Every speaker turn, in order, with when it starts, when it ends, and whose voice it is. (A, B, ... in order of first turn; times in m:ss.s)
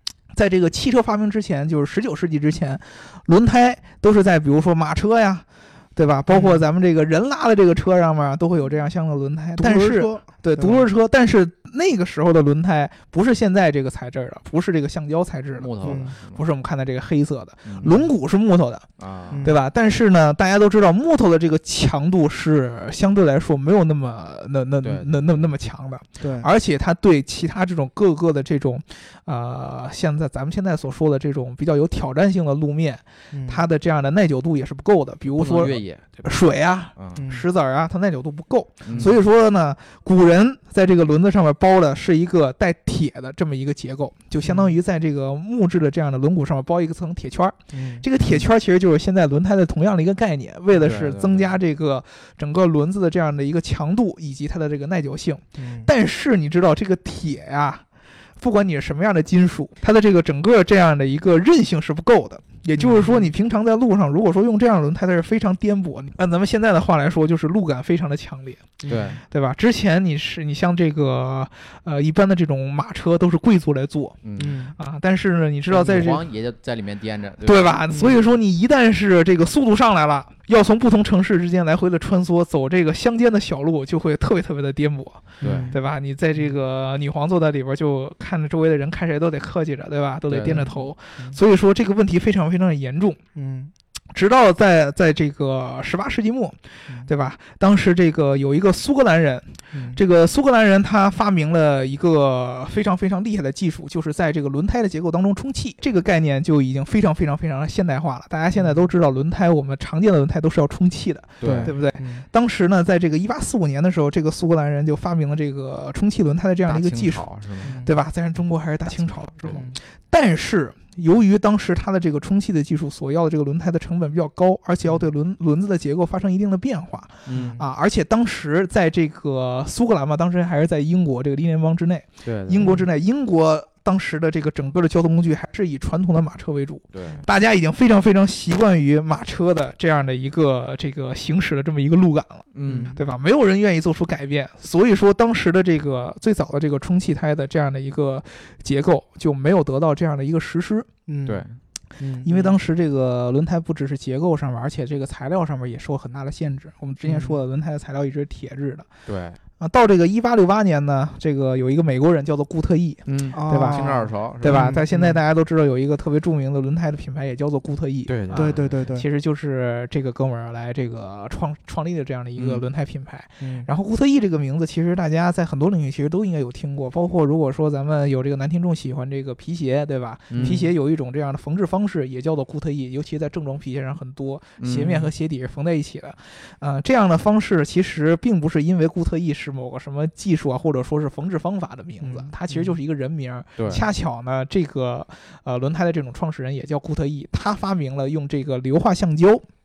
0:00.3-0:05.4 A
0:06.0-0:18.9 A
0:06.3-0:06.6 B
0:09.6-0:10.9 B
0:15.6-0:16.4 C
0:15.8-0:16.1 B
0:17.6-0:18.0 C
0:17.8-0:18.1 B
0:19.0-0:19.4 C
0:19.3-0:19.6 B
0:19.4-0:57.8 A
0:24.8-0:25.5 C
0:26.2-0:26.5 B
0:33.3-0:33.6 B
0:35.4-0:36.3 C
0:37.0-0:37.2 C
0:37.2-0:37.5 B
0:38.9-0:39.2 C
0:44.4-0:44.7 B
0:47.7-0:48.1 B
0:50.7-0:51.5 C
0:55.6-0:55.9 B
0:58.4-1:08.7 A
1:02.8-1:03.3 B
1:08.8-1:09.2 B
1:08.9-1:09.2 C
1:09.3-1:14.2 A
1:14.2-1:14.6 C
1:14.4-1:14.7 B
1:14.8-1:16.3 A
1:15.7-1:17.8 C
1:17.4-1:33.2 A
1:17.9-1:18.2 B
1:25.4-1:25.8 B
1:25.4-1:25.7 C
1:30.3-1:30.7 C
1:30.4-1:31.4 B
1:33.4-1:33.7 B
1:34.1-1:57.3 A
1:39.7-1:40.0 B
1:48.6-1:48.9 B
1:51.4-1:51.7 C
1:51.4-1:52.2 B
1:56.7-1:57.8 C
1:57.6-1:57.9 B
1:57.8-2:30.9 A
1:58.9-1:59.7 C
1:59.5-1:59.8 B
2:07.3-2:07.6 C
2:07.3-2:07.6 B
2:12.2-2:12.8 C
2:12.6-2:12.9 B
2:16.9-2:17.3 C
2:22.5-2:22.9 C
2:22.7-2:23.0 B
2:31.1-2:31.4 B
2:31.3-2:31.6 C
2:32.0-2:32.5 B
2:32.2-2:38.9 A
2:37.0-2:37.4 B
2:39.1-2:39.4 C
2:39.6-3:19.4 A
2:43.1-2:44.8 C
2:43.3-2:45.2 B
2:48.1-2:48.8 C
2:48.3-2:49.0 B
2:52.4-2:52.6 C
2:53.4-2:53.7 B
3:00.3-3:00.7 C
3:00.4-3:00.7 B
3:04.6-3:05.1 C
3:12.0-3:12.8 B
3:13.6-3:13.9 C